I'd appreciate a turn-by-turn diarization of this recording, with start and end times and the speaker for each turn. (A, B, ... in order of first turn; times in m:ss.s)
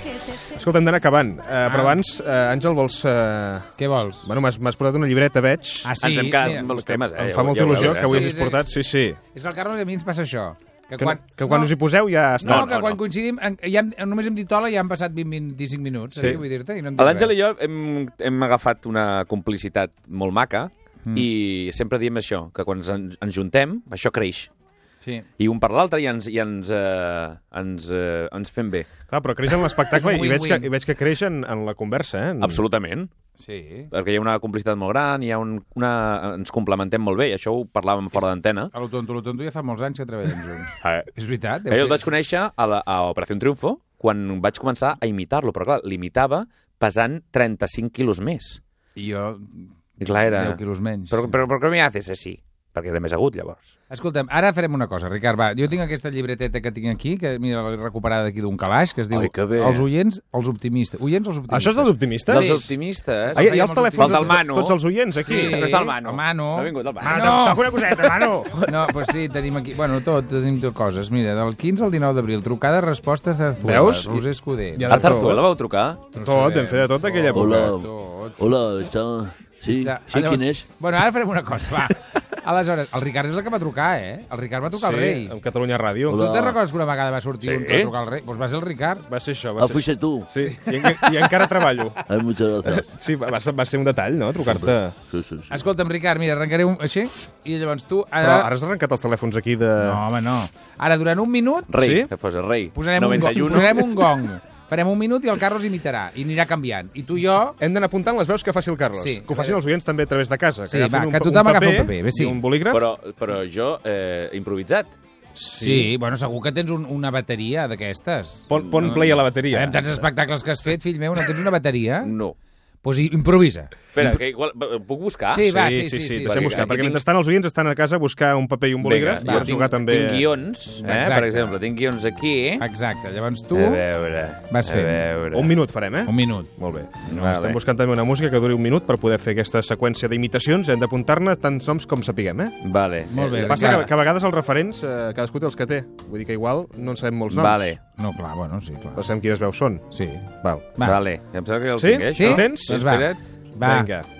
0:00.4-0:05.9 A
0:01.6-0:02.0 B
0:03.8-0:04.3 B
0:05.8-0:06.7 B
0:06.0-0:08.4 C
0:06.6-0:09.2 A
0:07.7-0:08.6 B
0:09.3-0:11.7 B
0:11.0-0:13.0 A
0:12.4-0:17.3 B
0:12.4-0:12.8 C
0:16.2-0:16.4 A
0:17.0-0:24.5 C
0:25.4-0:28.9 C
0:29.1-0:32.6 A
0:29.9-0:30.7 B
0:32.4-0:33.1 C
0:33.4-0:33.9 B
0:33.9-0:38.7 C
0:38.7-0:42.1 B
0:40.8-0:41.1 C
0:41.7-0:48.6 C
0:49.0-0:51.3 B
0:50.0-0:53.7 C
0:53.9-1:02.6 B
0:59.1-0:59.8 C
1:01.5-1:02.7 A
1:02.3-1:08.3 C
1:03.3-1:04.4 B
1:03.3-1:05.8 A
1:05.2-1:07.7 B
1:07.0-1:08.6 A
1:08.6-1:15.3 B
1:13.6-1:14.2 A
1:14.8-1:15.4 A
1:14.9-1:16.0 C
1:16.1-1:18.4 B
1:16.2-1:17.7 A
1:17.3-1:20.6 D
1:19.7-1:25.3 B
1:24.7-1:26.2 A
1:26.1-1:26.6 D
1:26.1-1:29.0 B
1:27.4-1:27.9 C
1:29.1-1:32.0 A
1:29.6-1:30.3 D
1:30.4-1:31.4 B
1:32.1-1:32.9 D
1:32.7-1:34.9 A
1:34.4-1:35.6 D
1:35.5-1:38.5 B
1:38.2-1:40.0 A
1:39.8-1:41.7 B
1:41.7-1:44.2 C
1:41.8-1:42.1 A
1:42.7-1:47.6 B
1:47.6-1:52.9 A
1:48.9-1:49.6 B
1:50.7-1:52.4 B
1:52.7-1:54.9 C
1:55.4-1:55.8 A
1:55.6-2:02.1 B
1:58.5-2:00.0 A
2:02.0-2:02.4 C
2:02.8-2:04.1 B
2:03.9-2:05.5 C
2:05.3-2:06.9 B
2:05.5-2:10.3 A
2:06.2-2:07.0 C
2:08.8-2:12.6 C
2:09.2-2:09.6 B
2:10.8-2:11.5 B
2:12.6-2:13.8 B
2:13.5-2:15.6 C
2:14.5-2:15.0 B
2:15.3-2:22.6 A
2:16.1-2:16.5 B
2:17.1-2:17.6 C
2:22.6-2:23.8 C
2:23.1-2:23.9 B
2:23.5-2:27.8 A
2:27.3-2:27.8 C
2:28.0-2:29.1 B
2:29.0-2:29.8 A
2:29.9-2:31.0 B
2:30.8-2:33.2 C
2:31.8-2:33.0 A
2:32.1-2:33.9 B
2:33.6-2:34.1 A